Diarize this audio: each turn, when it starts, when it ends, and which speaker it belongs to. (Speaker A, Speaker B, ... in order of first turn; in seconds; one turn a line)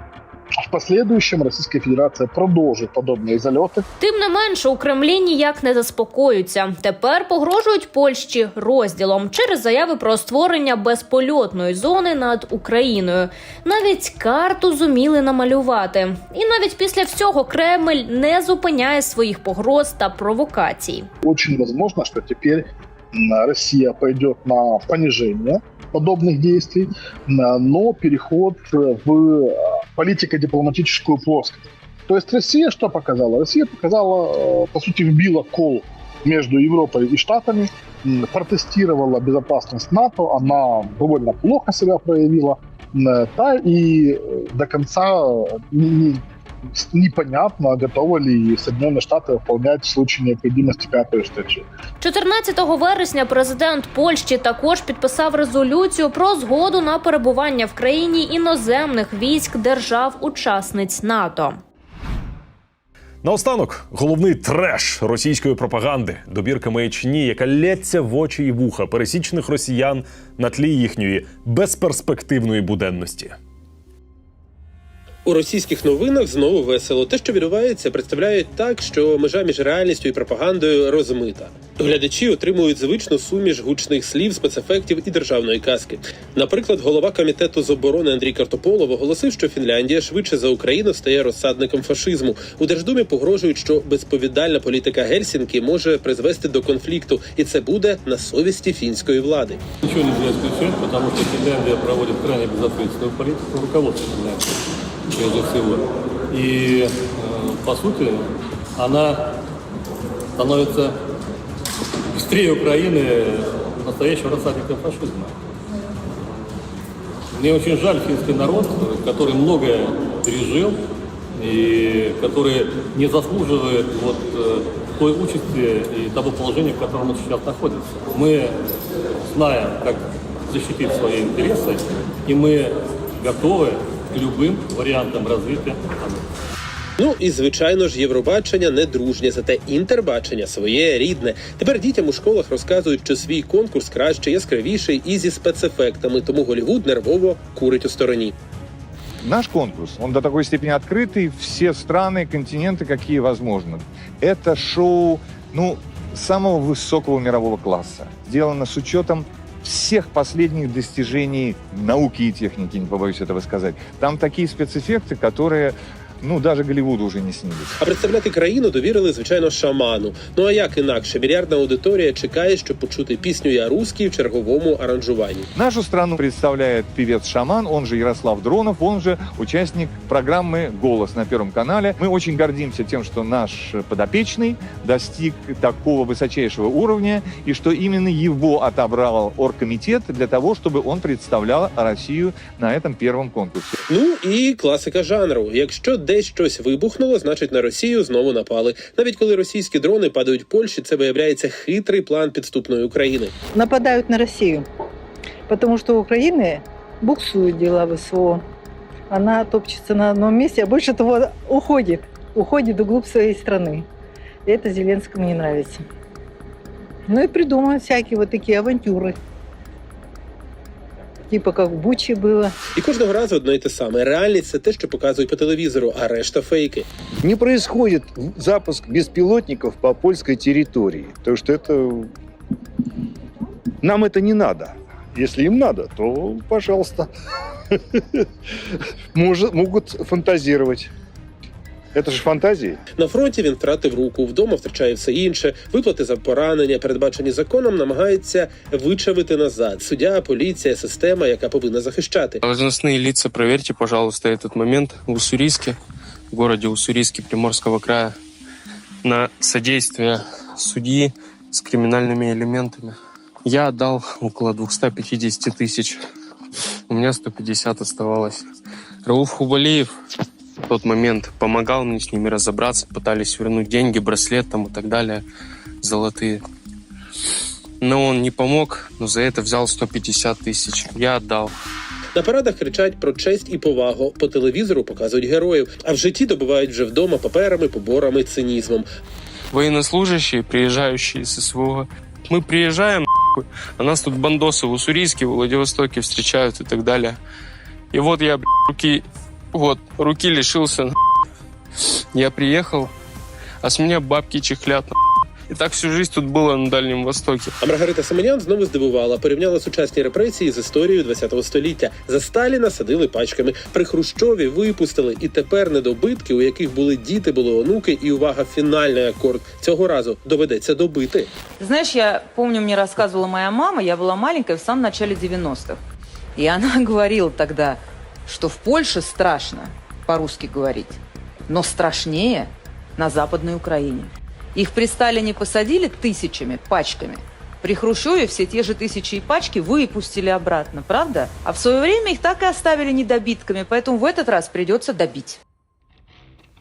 Speaker A: 0.6-3.8
Speaker B: 4.0-21.1
Speaker A: 21.2-51.6
Speaker B: 52.0-61.6
Speaker C: 63.2-73.3
Speaker D: 75.2-99.6
Speaker E: 99.8-104.4
Speaker E: 105.1-109.3
Speaker E: 110.4-110.9
Speaker E: 112.1-115.3
Speaker E: 117.3-120.8
Speaker E: 121.3-128.6
Speaker E: 129.3-136.2
Speaker D: 137.0-148.3
Speaker F: 149.2-167.7
Speaker D: 167.8-175.5
Speaker F: 175.5-193.8
Speaker D: 193.9-203.3
Speaker G: 203.5-204.7
Speaker G: 205.5-208.4
Speaker G: 209.1-213.8
Speaker G: 214.4-215.8
Speaker G: 217.1-219.2
Speaker G: 221.3-222.5
Speaker D: 222.8-226.8
Speaker H: 227.2-232.1
Speaker H: 233.8-237.0
Speaker H: 239.2-240.9
Speaker H: 241.9-242.7
Speaker D: 243.0-252.4
Speaker I: 252.4-255.8
Speaker I: 256.3-258.1
Speaker I: 259.0-266.0
Speaker I: 266.9-268.5
Speaker I: 269.0-269.9
Speaker I: 270.7-275.2
Speaker I: 275.8-276.4
Speaker I: 277.8-281.5
Speaker D: 282.1-288.9
Speaker I: 289.5-297.2
Speaker I: 297.9-300.9
Speaker I: 302.1-302.9
Speaker I: 303.6-304.9
Speaker I: 305.5-307.5
Speaker D: 307.6-321.3
Speaker J: 321.6-325.8
Speaker J: 326.4-345.4